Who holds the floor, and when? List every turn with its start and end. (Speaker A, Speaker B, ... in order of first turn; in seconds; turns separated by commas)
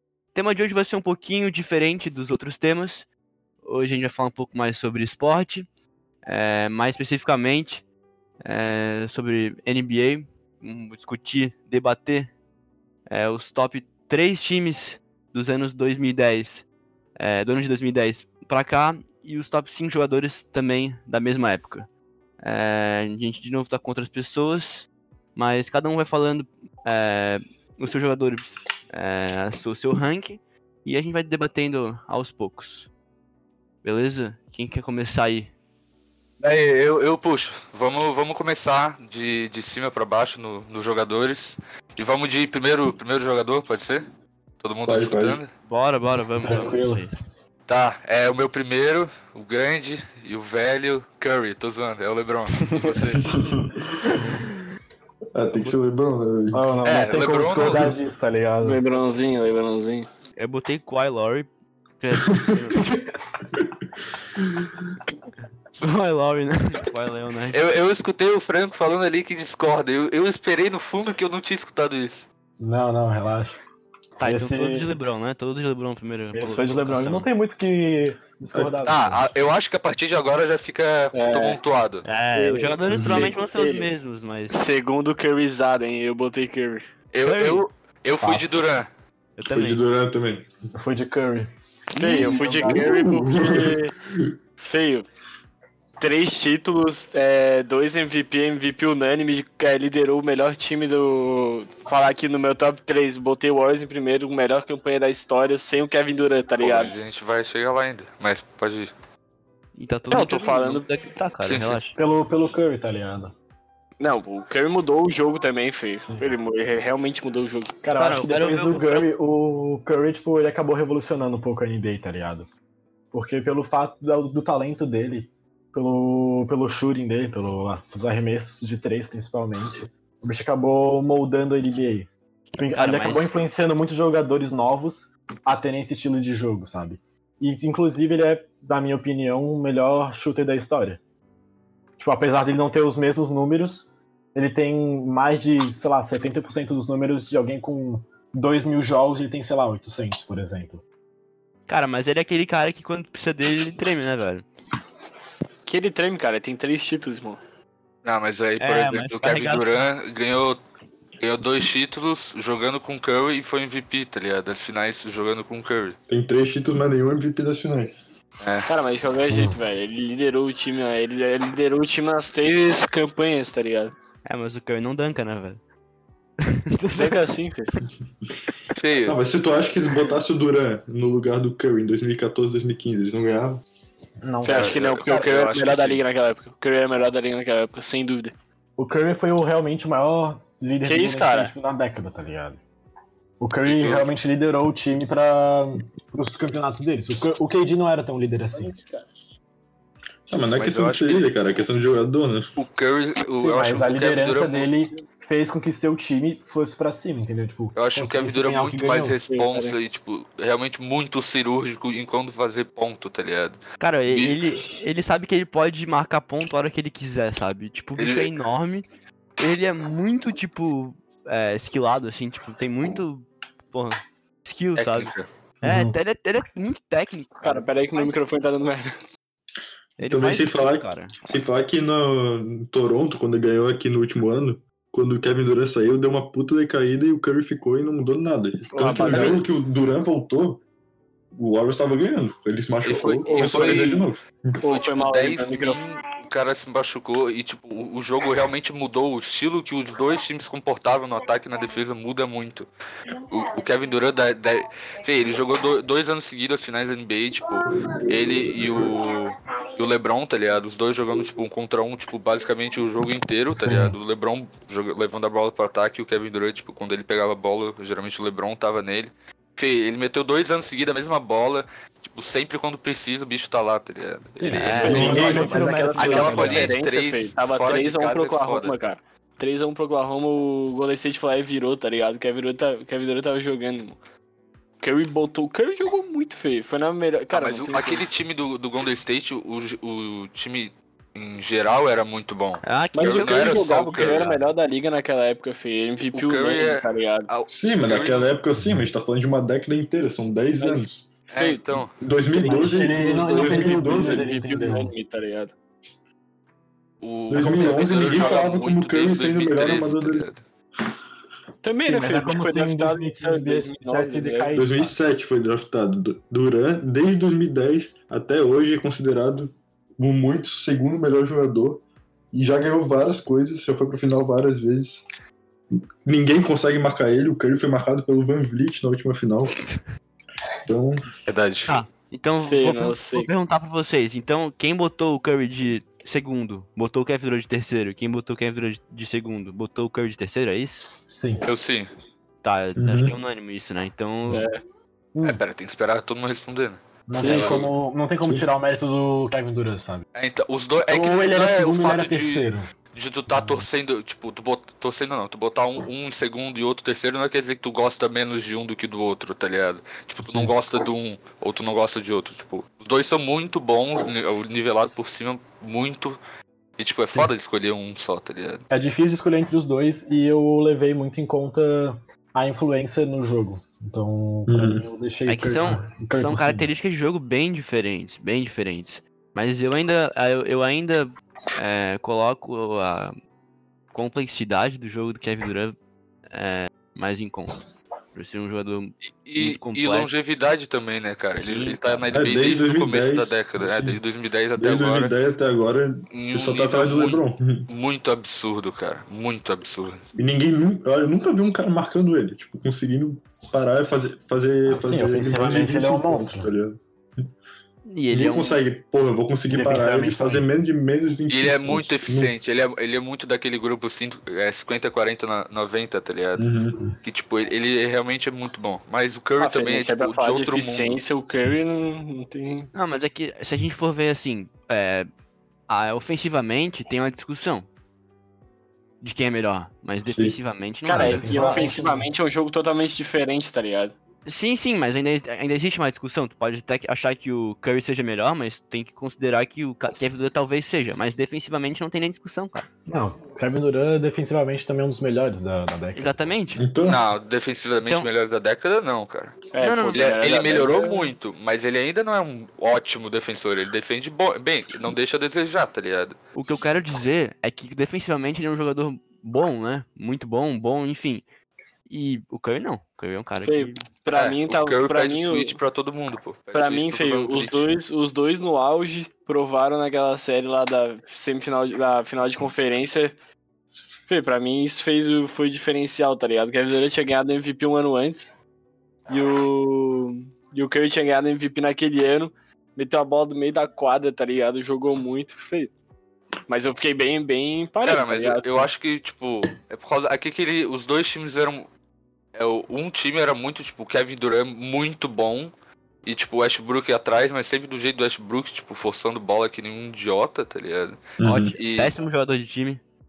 Speaker A: 0.3-3.1, Speaker A: 3.6-5.7, Speaker A: 6.3-7.8, Speaker A: 8.4-12.3, Speaker A: 13.1-16.6, Speaker A: 17.2-21.9, Speaker A: 22.4-32.9, Speaker A: 33.8-35.5, Speaker B: 36.4-44.1, Speaker B: 44.6-45.5, Speaker C: 44.9-45.4, Speaker A: 45.6-47.1, Speaker D: 46.4-47.1, Speaker B: 47.7-53.4, Speaker C: 53.3-53.9, Speaker C: 55.4-56.6, Speaker D: 56.5-58.8, Speaker B: 56.8-58.0, Speaker E: 58.6-60.1, Speaker A: 60.4-61.5, Speaker A: 62.0-62.9, Speaker A: 65.8-67.6, Speaker B: 67.5-72.3, Speaker D: 72.6-73.6, Speaker D: 74.2-74.9, Speaker A: 74.2-77.3, Speaker D: 76.3-79.0, Speaker C: 78.5-79.2, Speaker B: 78.8-82.1, Speaker E: 81.1-81.6, Speaker A: 82.0-84.6, Speaker E: 82.3-83.9, Speaker C: 82.9-83.3, Speaker E: 84.5-86.9, Speaker B: 87.1-88.9, Speaker A: 87.2-87.7, Speaker D: 88.2-88.6, Speaker A: 89.4-89.8, Speaker C: 89.5-90.5, Speaker D: 90.8-91.5, Speaker A: 91.9-92.6, Speaker E: 92.0-94.0, Speaker D: 92.2-93.2, Speaker C: 92.6-94.4, Speaker E: 94.6-95.1, Speaker E: 96.0-106.9, Speaker B: 106.6-108.9, Speaker A: 109.8-112.0, Speaker E: 110.1-110.9, Speaker B: 111.4-111.8, Speaker D: 112.0-113.3, Speaker E: 114.0-117.8, Speaker D: 117.8-122.5, Speaker A: 118.0-119.1, Speaker D: 123.1-141.0, Speaker A: 132.6-133.3, Speaker D: 142.0-150.8, Speaker A: 151.7-154.5, Speaker E: 155.7-157.4, Speaker B: 158.0-160.6, Speaker A: 158.6-159.7, Speaker B: 161.2-166.0, Speaker C: 166.1-168.1, Speaker B: 168.4-168.7, Speaker E: 168.7-173.9, Speaker D: 169.3-169.6, Speaker A: 174.2-175.6, Speaker A: 176.4-177.3, Speaker E: 176.9-177.7, Speaker B: 178.7-179.2, Speaker C: 179.1-183.6, Speaker D: 184.2-185.2, Speaker E: 184.4-188.3, Speaker B: 184.4-186.0, Speaker D: 188.8-192.6, Speaker E: 190.8-191.5, Speaker D: 193.4-199.0, Speaker B: 193.7-194.1, Speaker C: 200.3-202.6, Speaker B: 200.5-201.3, Speaker B: 202.6-204.7, Speaker D: 203.4-209.2, Speaker B: 207.8-214.4, Speaker E: 209.3-209.8, Speaker A: 213.8-218.8, Speaker B: 218.0-218.3, Speaker A: 219.4-228.0, Speaker B: 224.8-225.3, Speaker D: 225.6-226.0, Speaker E: 227.4-228.9, Speaker A: 230.0-231.2, Speaker C: 230.0-240.6, Speaker E: 238.7-239.4, Speaker D: 238.8-239.4, Speaker B: 239.1-239.4, Speaker C: 241.3-244.6, Speaker B: 242.8-244.1, Speaker E: 243.2-244.0, Speaker E: 244.6-245.9, Speaker B: 244.6-278.8, Speaker C: 258.2-258.9, Speaker D: 263.5-264.0, Speaker D: 274.4-276.8, Speaker A: 274.6-275.7, Speaker E: 274.7-284.0, Speaker C: 274.9-275.6, Speaker C: 276.1-276.6, Speaker E: 284.8-288.1, Speaker B: 287.3-294.2, Speaker A: 292.6-294.4, Speaker E: 292.9-297.3, Speaker B: 296.1-298.3, Speaker C: 297.5-301.1, Speaker E: 300.6-301.6, Speaker B: 301.3-301.9, Speaker C: 302.0-304.3, Speaker D: 302.3-304.9, Speaker E: 302.4-305.5, Speaker B: 307.0-310.4, Speaker C: 307.3-310.3, Speaker E: 308.1-308.5, Speaker E: 311.6-314.5, Speaker D: 311.9-314.9, Speaker C: 314.6-325.0, Speaker C: 326.1-329.6, Speaker C: 330.7-331.1, Speaker B: 331.3-331.8, Speaker A: 331.7-340.9, Speaker E: 332.4-333.3, Speaker D: 341.1-341.5, Speaker B: 341.4-341.9, Speaker A: 342.4-344.5, Speaker C: 342.8-343.2, Speaker E: 344.3-344.6, Speaker D: 345.1-345.4, Speaker B: 345.2-347.7, Speaker D: 347.1-350.1, Speaker E: 347.2-347.7, Speaker B: 350.1-366.2, Speaker D: 350.9-352.7, Speaker D: 353.3-353.6, Speaker D: 360.3-360.5, Speaker B: 366.8-368.6, Speaker D: 368.7-376.7, Speaker C: 374.5-374.9, Speaker A: 375.3-383.1, Speaker A: 383.9-385.8, Speaker A: 386.3-390.1, Speaker B: 389.2-395.1, Speaker A: 391.5-392.0, Speaker C: 392.1-394.0, Speaker C: 394.6-397.7, Speaker B: 396.1-400.0, Speaker C: 400.2-406.8, Speaker D: 404.7-406.5, Speaker A: 407.9-408.6, Speaker C: 408.1-412.3, Speaker D: 409.5-410.5, Speaker B: 411.3-416.5, Speaker C: 416.4-416.9, Speaker B: 417.0-421.0, Speaker E: 419.4-422.7, Speaker A: 422.7-425.1, Speaker A: 425.7-427.7, Speaker A: 429.0-431.7, Speaker C: 430.1-430.4, Speaker E: 430.9-433.9, Speaker D: 430.9-432.1, Speaker A: 434.2-442.7, Speaker D: 442.9-446.3, Speaker A: 446.0-446.6, Speaker C: 446.6-447.0, Speaker B: 446.8-456.2, Speaker E: 449.5-451.1, Speaker A: 449.6-450.1, Speaker A: 456.4-461.2, Speaker A: 461.9-463.8, Speaker E: 463.4-465.6, Speaker B: 464.1-467.8, Speaker E: 466.5-473.1, Speaker E: 474.1-478.3, Speaker E: 479.1-485.7, Speaker E: 486.5-488.7, Speaker B: 487.8-491.7, Speaker B: 492.4-495.5, Speaker B: 496.1-501.9, Speaker C: 501.2-501.6, Speaker A: 501.2-502.8